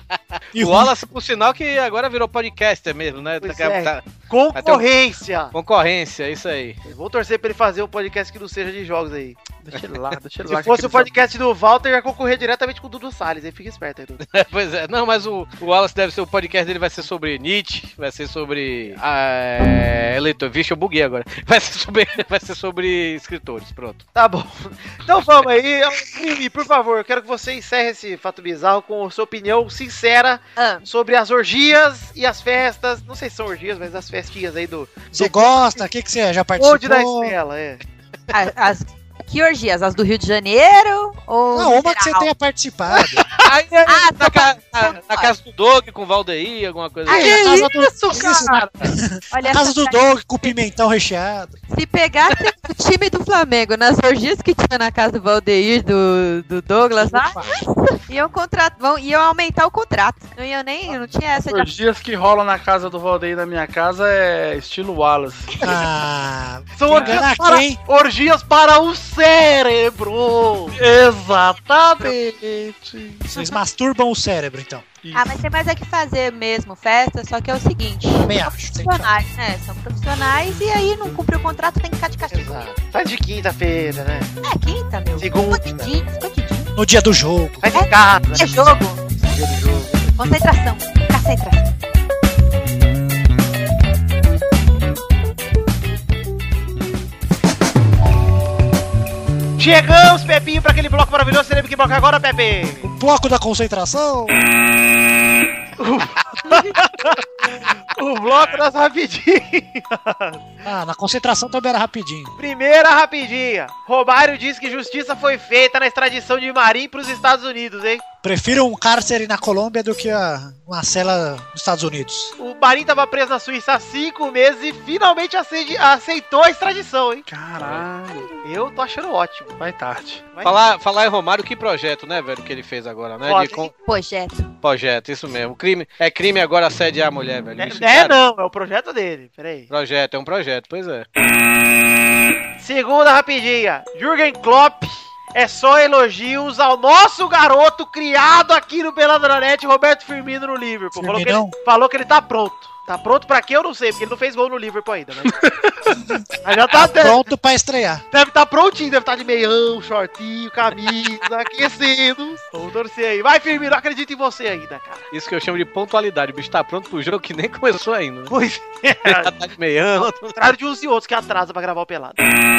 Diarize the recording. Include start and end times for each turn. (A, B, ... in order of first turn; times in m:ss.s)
0:00.5-0:00.9 A
0:00.5-0:04.0 B
0:03.4-0:05.5 C
0:04.5-0:04.8 B
0:05.5-0:06.8 B
0:06.8-0:09.4 C
0:09.6-0:11.1 D
0:10.5-0:14.2 C
0:14.2-0:24.0 B
0:24.1-0:35.8 C
0:30.6-0:30.8 E
0:35.1-0:37.3 A
0:36.6-0:37.8 C
0:38.3-0:42.3 E
0:41.5-0:43.2 A
0:43.4-0:47.5 B
0:43.8-0:45.3 E
0:47.1-0:47.7 E
0:47.1-0:51.6 A
0:47.1-0:49.0 D
0:49.3-0:50.6 E
0:51.7-1:01.8 E
0:57.0-0:57.3 A
1:00.9-1:05.5 D
1:05.6-1:07.8 A
1:06.8-1:10.8 C
1:10.7-1:13.3 D
1:13.3-1:15.0 A
1:15.1-1:22.7 E
1:18.2-1:19.1 A
1:22.3-1:24.3 C
1:24.4-1:26.7 E
1:25.2-1:25.9 C
1:26.8-1:27.6 A
1:27.6-1:28.6 C
1:27.7-1:29.0 E
1:29.2-1:30.1 C
1:30.2-1:31.7 E
1:39.6-1:42.8 C
1:42.8-1:44.3 A
1:45.8-1:47.2 C
1:47.9-1:50.4 C
1:50.6-1:52.3 A
1:52.4-1:58.0 C
1:58.2-2:02.3 A
2:02.4-2:07.2 C
2:07.3-2:08.3 D
2:07.6-2:07.8 B
2:08.4-2:09.6 C
2:09.6-2:10.3 D
2:10.4-2:13.7 B
2:13.2-2:13.7 C
2:13.8-2:14.5 E
2:14.6-2:18.2 B
2:17.6-2:19.7 C
2:19.7-2:21.1 B
2:22.6-2:35.4 C
2:31.0-2:31.5 A
2:35.4-2:35.7 D
2:35.9-2:38.0 A
2:36.4-2:37.2 C
2:38.1-2:45.0 C
2:45.1-2:48.3 B
2:48.3-2:49.3 C
2:49.0-2:50.4 B
2:50.0-2:52.2 C